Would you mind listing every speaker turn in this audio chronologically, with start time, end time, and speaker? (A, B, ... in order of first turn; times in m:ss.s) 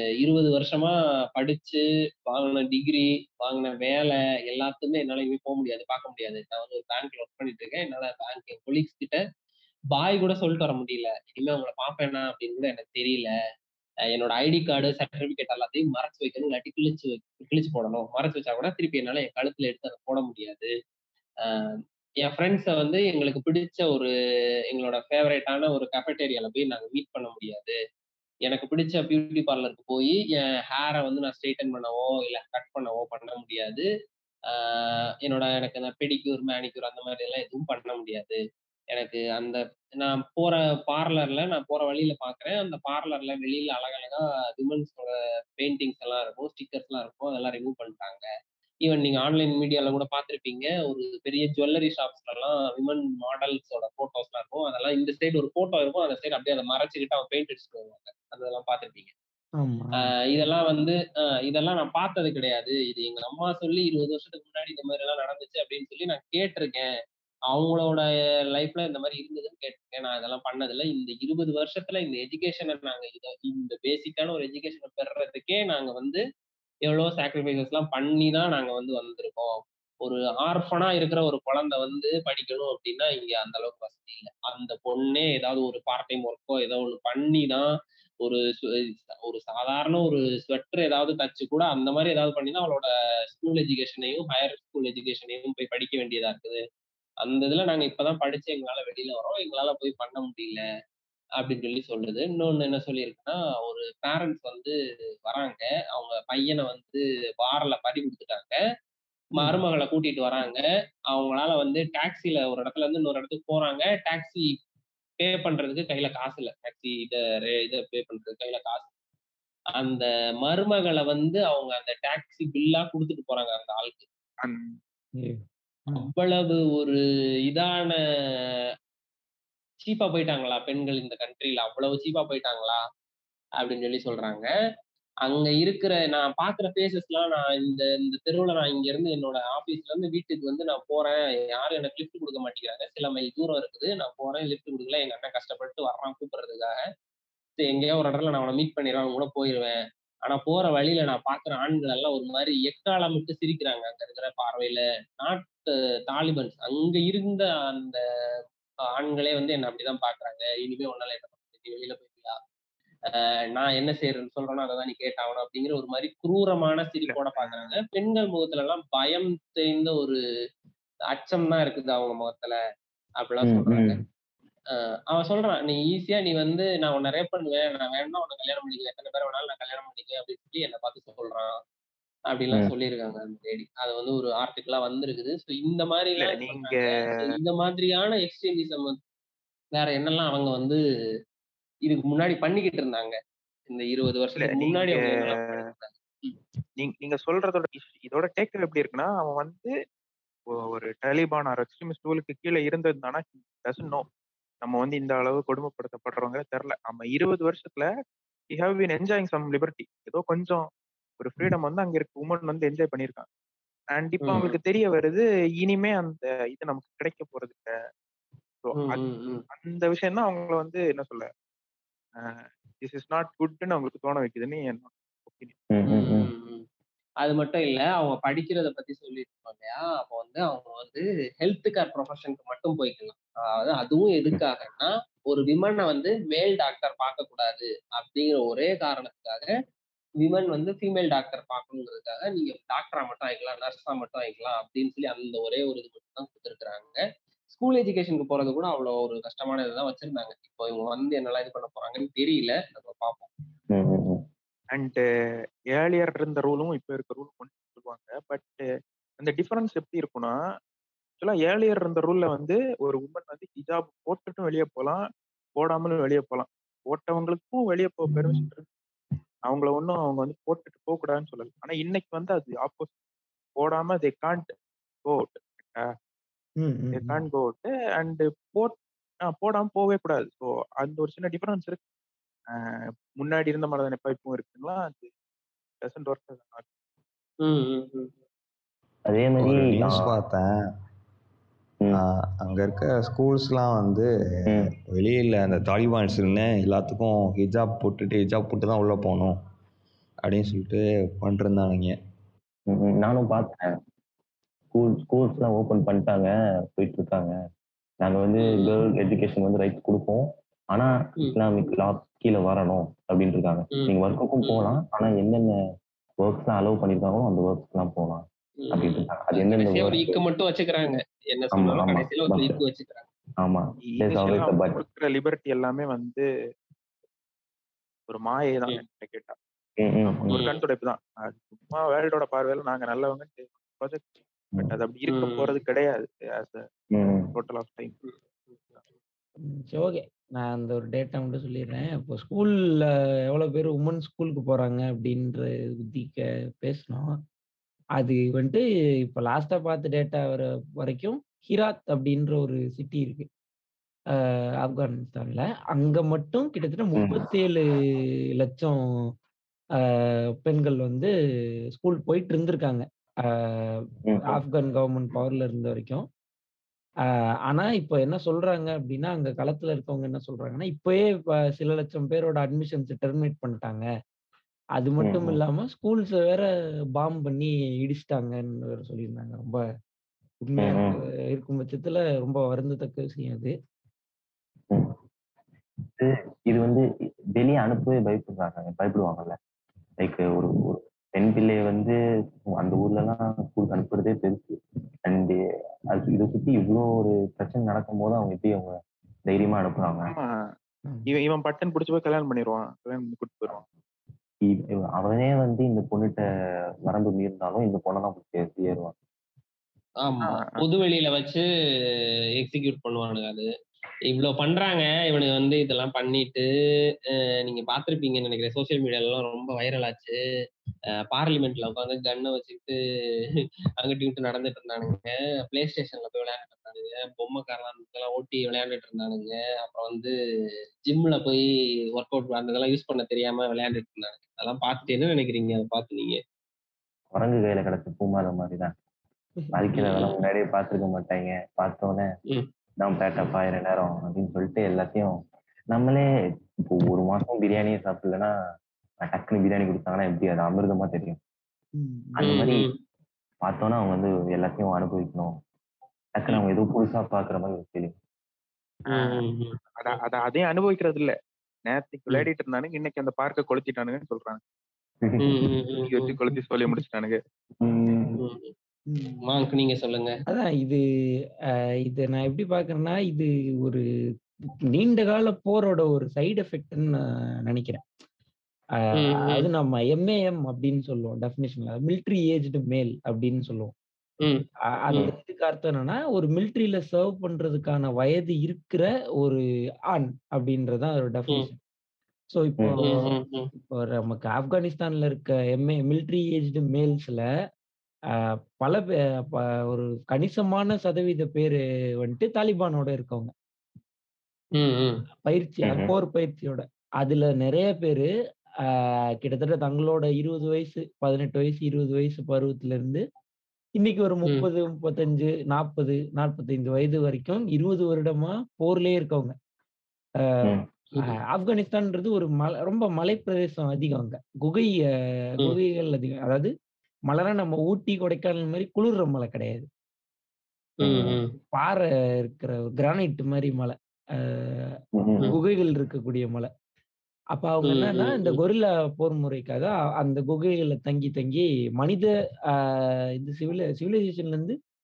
0:00.2-0:09.2 A
0:09.9-0:13.3 A
0:14.1-0:20.7 A
0:21.5-0:21.7 A
0:22.2-0:24.1 A
0:24.7-0:27.8 A
0:28.5-0:33.9 A
0:34.5-0:38.4 A
0:38.9-0:48.2 A
0:48.9-0:59.1 A
0:59.6-1:00.1 B
1:00.2-1:06.9 A
1:07.5-1:16.2 A
1:16.9-1:27.7 A
1:28.2-1:36.6 A
1:37.2-1:40.6 A
1:41.4-1:44.7 A
1:45.3-1:48.6 A
1:49.4-1:54.6 A
1:55.2-1:58.9 A
1:59.8-2:04.1 A
2:04.4-2:04.8 C
2:05.2-2:06.1 B
2:06.0-2:07.0 A
2:07.5-2:08.0 A
2:09.8-2:12.8 A
2:13.6-2:14.5 A
2:15.2-2:26.8 A
2:27.6-2:38.0 A
2:39.0-2:42.4 A
2:43.1-2:50.2 A
2:47.1-2:47.8 C
2:51.1-2:52.6 A
2:53.2-2:54.0 A
2:53.4-2:54.0 D
2:55.1-3:01.5 A
3:02.3-3:09.0 A
3:06.2-3:06.8 C
3:09.7-3:10.8 A
3:11.9-3:13.2 A
3:13.7-3:15.9 A
3:14.4-3:15.0 C
3:16.8-3:19.7 C
3:20.7-3:24.1 C
3:24.6-3:27.8 C
3:28.5-3:30.6 C
3:31.2-3:33.3 C
3:33.9-3:37.7 C
3:34.2-3:34.6 A
3:38.6-3:41.3 C
3:38.8-3:39.4 A
3:42.2-3:45.6 C
3:45.7-3:46.3 D
3:45.9-3:46.6 A
3:47.2-3:59.5 A
4:00.2-4:13.3 A
4:13.7-4:14.2 D
4:14.7-4:15.0 C
4:15.7-4:18.6 C
4:19.2-4:20.3 C
4:21.2-4:25.0 C
4:25.6-4:28.6 C
4:28.1-4:28.5 B
4:29.5-4:32.9 C
4:33.6-4:34.5 C
4:35.0-4:35.8 C
4:36.6-4:37.2 B
4:37.0-4:41.8 C
4:42.5-4:45.1 C
4:45.8-4:46.7 C
4:47.4-4:48.1 A
4:49.1-4:50.2 D
4:49.4-4:50.5 E
4:51.9-4:59.4 E
5:00.2-5:02.0 E
5:02.7-5:03.6 D
5:04.7-5:07.3 D
5:08.0-5:15.5 D
5:08.4-5:08.8 A
5:14.4-5:14.8 A
5:16.2-5:20.2 D
5:18.6-5:23.1 A
5:21.6-5:22.6 D
5:23.4-5:24.8 D
5:23.8-5:26.2 C
5:28.1-5:29.4 C
5:29.8-5:30.4 D
5:30.1-5:34.1 C
5:30.3-5:30.6 A
5:34.6-5:36.6 C
5:35.1-5:35.5 A
5:37.0-5:37.3 D
5:37.3-5:38.0 C
5:38.0-5:38.7 A
5:39.4-5:47.1 B
5:48.0-5:53.3 B
5:54.1-5:58.8 B
5:57.0-5:57.3 D
5:59.8-6:01.1 B
6:01.8-6:06.1 B
6:04.0-6:04.4 D
6:07.5-6:13.9 B
6:14.8-6:19.6 B
6:15.0-6:15.4 D
6:20.4-6:23.5 B
6:20.6-6:21.0 D
6:24.7-6:25.0 D
6:26.0-6:26.8 D
6:27.4-6:29.4 D
6:30.0-6:32.0 D
6:32.5-6:35.4 D
6:35.9-6:38.8 D
6:39.3-6:40.1 D
6:41.1-6:43.6 C
6:44.5-6:46.2 D
6:46.9-6:49.0 D
6:50.0-6:51.4 A
6:52.4-6:53.5 A
6:54.1-6:56.5 A
6:57.4-7:00.2 A
7:01.1-7:02.8 A
7:03.8-7:10.1 A
7:10.9-7:11.4 A
7:12.0-7:16.2 A
7:17.1-7:18.7 D
7:19.5-7:22.1 D
7:19.8-7:20.2 A
7:22.8-7:25.2 D
7:25.7-7:26.1 D
7:26.7-7:28.3 D
7:29.0-7:31.2 D
7:31.8-7:32.3 B
7:32.2-7:32.7 D
7:32.2-7:32.7 A
7:33.4-7:35.3 D
7:36.2-7:38.0 D
7:38.9-7:39.9 A
7:38.9-7:39.2 C
7:39.8-7:41.1 C
7:41.7-7:44.4 C
7:45.0-7:45.4 D
7:45.2-7:46.1 A
7:45.8-7:47.2 C
7:46.3-7:46.8 B
7:47.6-7:48.2 D
7:48.2-7:48.5 A
7:48.9-7:49.2 B
7:49.3-7:50.1 A
7:50.3-7:50.8 B
7:51.9-7:53.8 B
7:54.7-7:57.8 B
7:59.0-7:59.5 A
7:59.2-8:03.7 B
8:04.2-8:05.1 A
8:04.8-8:09.4 B
8:09.9-8:11.6 B
8:12.3-8:12.9 B
8:12.6-8:12.8 D
8:12.8-8:13.5 A
8:13.5-8:17.2 B
8:18.6-8:23.3 B
8:24.6-8:25.0 A
8:25.2-8:28.1 B
8:25.7-8:25.9 D
8:28.7-8:33.0 B
8:33.8-8:39.4 B
8:40.2-8:40.5 B
8:41.0-8:46.5 B
8:47.1-8:49.7 B
8:50.8-8:51.3 A
8:50.8-8:51.2 D
8:51.5-8:54.7 B
8:55.0-8:55.3 D
8:55.3-8:56.5 B
8:57.3-9:04.6 B
8:57.7-8:58.4 A